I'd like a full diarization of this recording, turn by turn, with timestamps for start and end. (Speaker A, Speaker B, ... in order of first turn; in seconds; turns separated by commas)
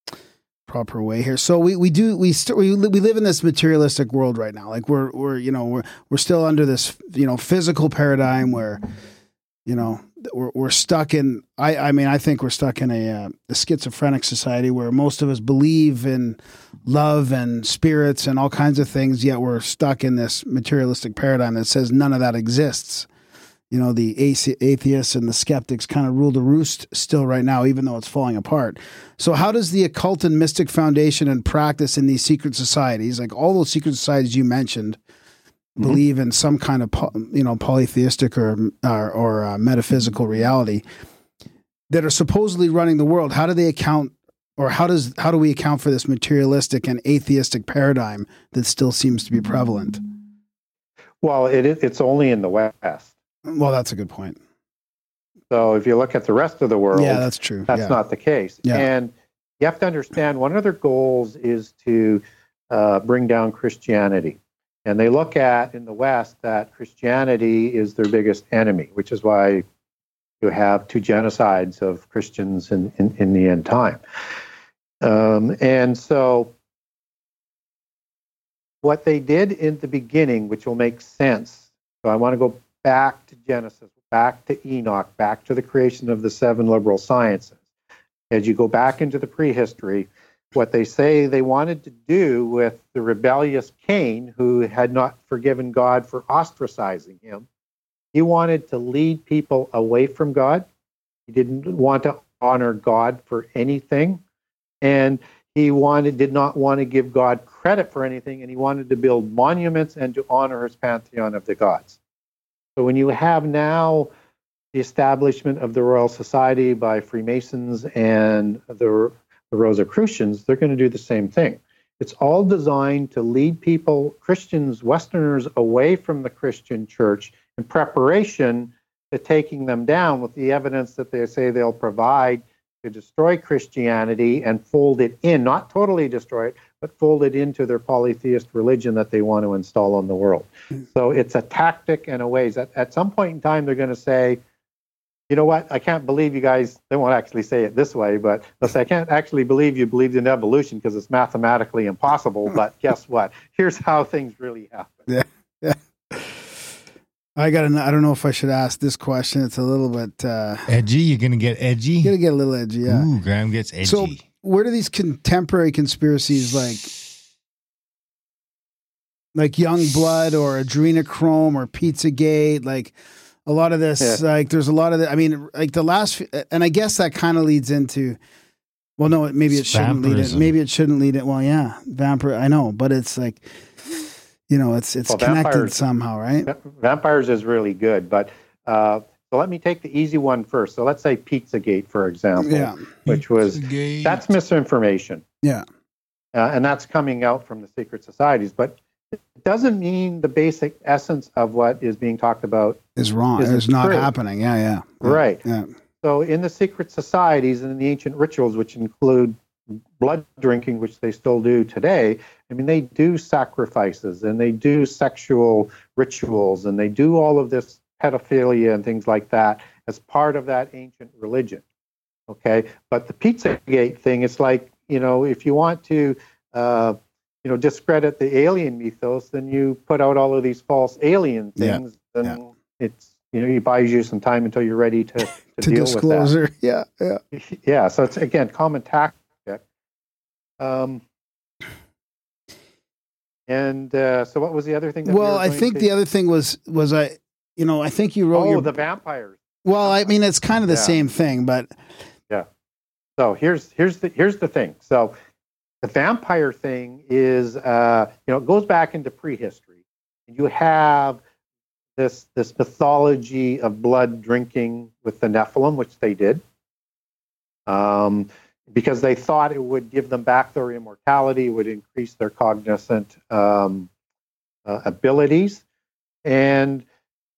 Speaker A: 0.7-8.8, Speaker A: 9.7-23.1, Speaker A: 23.7-35.0, Speaker A: 35.8-40.8, Speaker A: 41.9-50.0, Speaker B: 51.2-53.1, Speaker A: 53.5-54.4, Speaker B: 55.5-69.6, Speaker A: 56.9-58.0, Speaker B: 70.4-74.0, Speaker B: 75.0-76.5, Speaker B: 78.8-87.6, Speaker B: 88.3-97.5, Speaker B: 98.1-100.7, Speaker B: 101.3-104.2, Speaker B: 104.8-112.0, Speaker B: 112.8-114.1, Speaker B: 114.7-144.4, Speaker B: 145.3-155.0, Speaker A: 155.1-156.4, Speaker A: 157.4-160.7, Speaker C: 160.7-162.1, Speaker A: 162.0-163.1, Speaker C: 162.9-164.2, Speaker A: 163.8-166.9, Speaker A: 169.3-172.9, Speaker A: 173.4-178.2, Speaker A: 179.0-183.4, Speaker C: 179.5-180.5, Speaker A: 184.5-186.5, Speaker B: 185.1-185.8, Speaker B: 186.5-195.2, Speaker A: 192.4-192.8, Speaker C: 193.6-194.2, Speaker B: 196.3-202.8, Speaker A: 202.9-205.7, Speaker B: 203.4-204.1, Speaker B: 205.0-205.4, Speaker B: 206.0-209.3, Speaker B: 210.0-221.6, Speaker B: 222.3-236.3, Speaker A: 231.6-232.4, Speaker A: 235.6-237.2, Speaker B: 237.3-239.6, Speaker B: 240.6-241.0, Speaker B: 243.5-245.9, Speaker A: 245.0-248.7, Speaker B: 248.3-250.1, Speaker A: 249.6-251.7, Speaker B: 250.7-251.0, Speaker B: 253.2-255.1, Speaker B: 255.8-259.8, Speaker B: 260.3-261.2, Speaker B: 262.0-266.4, Speaker B: 267.7-273.9, Speaker B: 274.6-275.6, Speaker B: 276.2-276.8